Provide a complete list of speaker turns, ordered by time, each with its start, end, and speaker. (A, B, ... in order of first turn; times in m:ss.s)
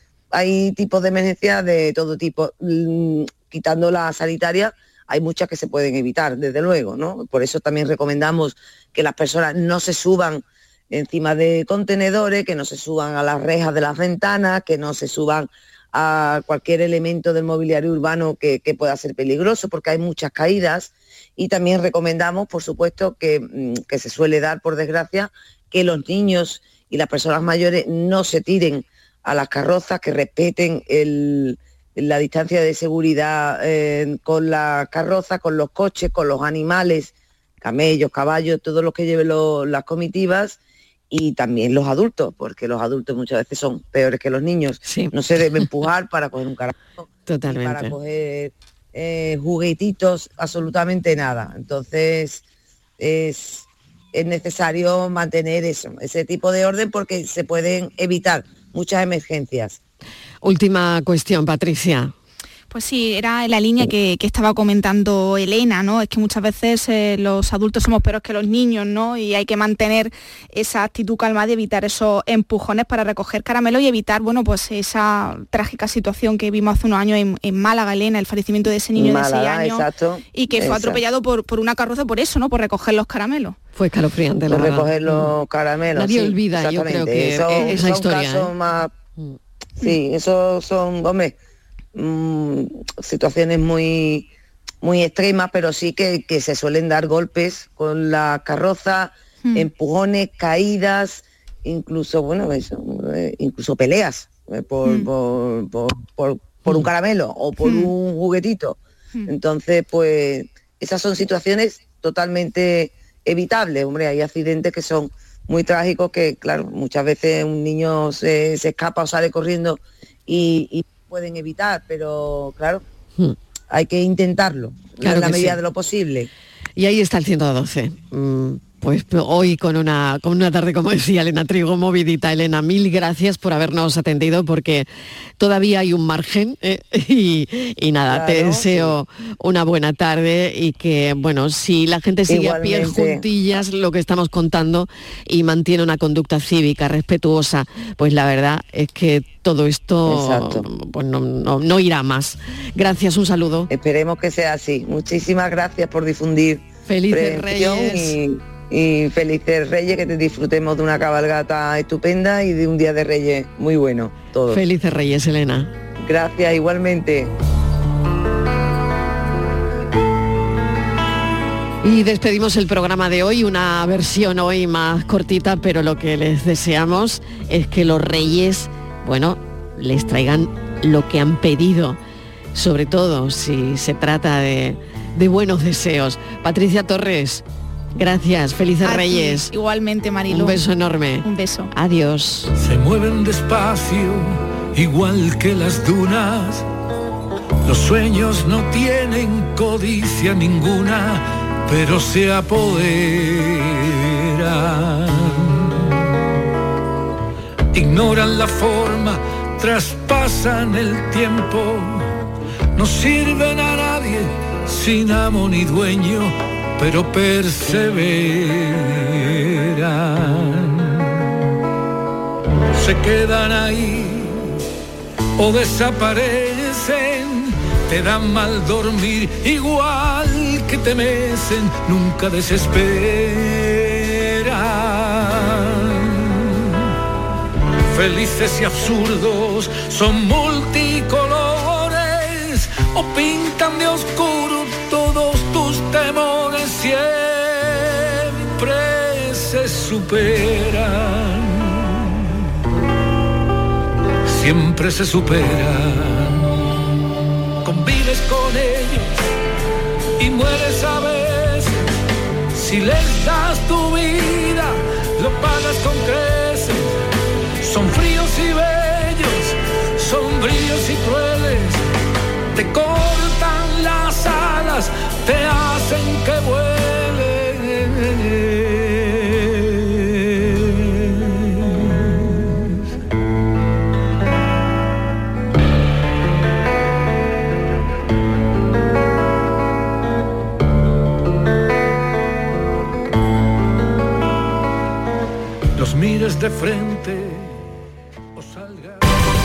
0:00.3-0:40.6 A
0:41.1-0:52.4 A
0:44.8-0:45.1 B
0:47.3-0:48.0 B
0:53.0-0:59.8 A
1:00.4-1:02.1 B
1:02.7-1:23.6 C
1:18.9-1:21.0 A
1:23.7-1:25.3 B
1:24.5-1:28.9 A
1:25.9-1:28.5 B
1:29.8-1:31.4 A
1:31.9-1:34.3 A
1:34.8-2:02.8 A
1:47.6-1:47.9 C
2:03.7-2:06.3 A
2:05.0-2:05.6 B
2:06.8-2:33.7 B
2:18.1-2:19.0 A
2:22.3-2:23.2 A
2:30.0-2:30.7 A
2:33.7-2:44.6 A
2:36.9-2:38.2 B
2:44.5-2:45.7 B
2:46.0-2:47.3 A
2:51.8-3:02.0 B
3:02.5-3:07.4 B
3:08.0-3:09.5 B
3:08.8-3:10.6 C
3:10.3-3:12.5 B
3:11.2-3:11.7 C
3:12.6-3:16.6 D
3:17.6-3:25.9 D
3:27.7-3:32.1 D
3:32.7-3:41.3 D
3:42.7-3:44.6 D
3:45.4-3:56.8 D
3:57.9-4:12.2 D
4:14.2-4:16.5 D
4:17.6-4:19.1 D
4:20.2-4:21.9 D
4:22.5-4:27.0 D
4:27.6-4:31.8 D
4:32.5-4:42.4 D
4:55.8-4:57.6 D
4:58.3-4:59.0 D